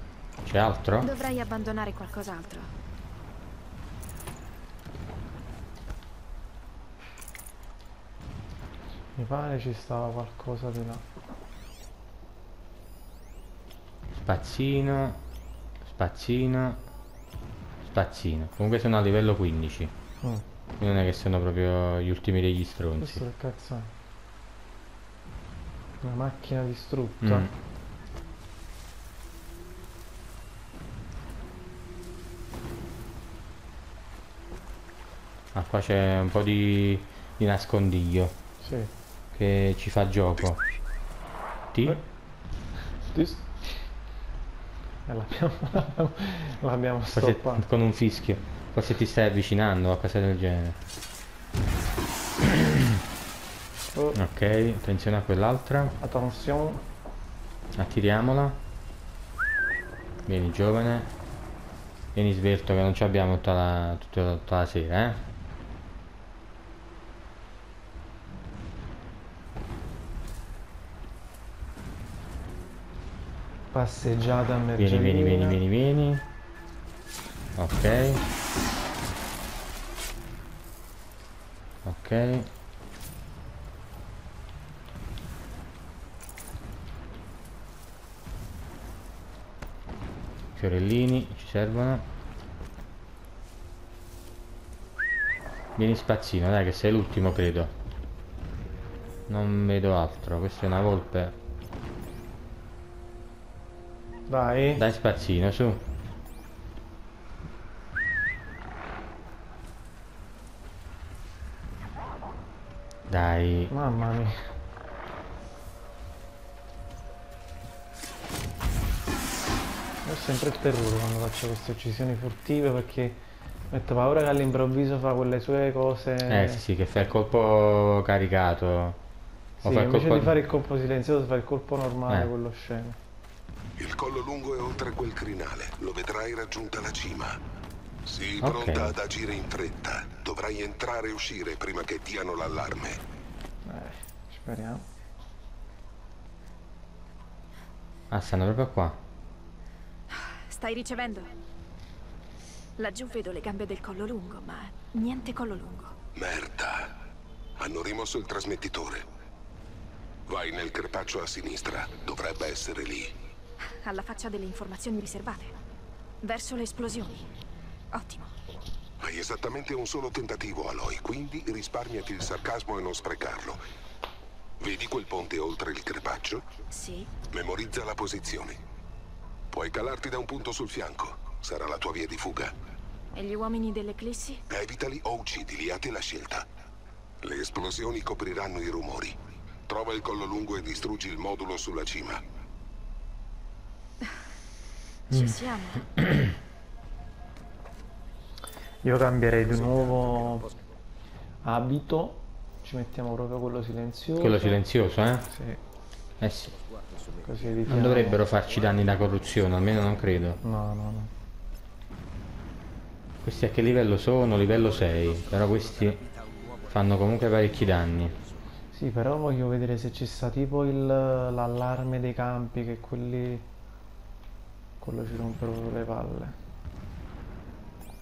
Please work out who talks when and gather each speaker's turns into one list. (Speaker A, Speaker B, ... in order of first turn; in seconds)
Speaker A: 0.4-1.1, 14.1-15.2, 15.8-16.8, 17.8-19.9, 20.8-23.2, 27.2-27.5, 35.5-38.3, 39.3-40.6, 41.7-42.0, 47.1-50.8, 52.4-53.0, 54.1-55.9, 57.7-58.6, 60.2-61.1, 62.1-65.2, 74.8-76.2, 77.6-78.2, 81.8-82.5, 90.5-92.0, 95.8-97.7, 99.3-101.3, 104.8-105.8, 113.1-113.7, 126.3-129.0, 129.6-130.3, 138.4-138.9, 148.1-149.0, 195.1-196.3, 204.2-205.3, 206.2-206.6, 207.7-210.4, 213.2-216.1, 216.6-218.2
Speaker B: 1.0-2.7, 150.1-151.3, 152.8-155.9, 163.8-165.5, 166.2-167.3, 167.9-168.3, 176.7-177.1, 183.1-184.4, 195.1-195.8
Speaker C: 9.2-11.0, 23.0-23.9, 26.0-27.5, 38.6-38.9, 43.1-43.9, 45.1-47.6, 53.9-54.2, 56.0-56.8, 73.7-75.6, 104.3-104.8, 113.7-114.4, 120.0-126.6, 129.6-133.0, 143.7-144.8, 198.8-200.5, 201.4-204.6, 205.3-205.6, 207.2-208.2, 210.4-211.1, 218.7-223.5, 224.8-226.4
Speaker D: 133.8-137.4, 138.0-143.0, 156.1-157.0, 157.6-159.0, 160.3-163.1, 169.0-173.6, 174.6-176.5, 177.3-178.6, 179.5-182.5, 184.5-186.5, 187.2-192.2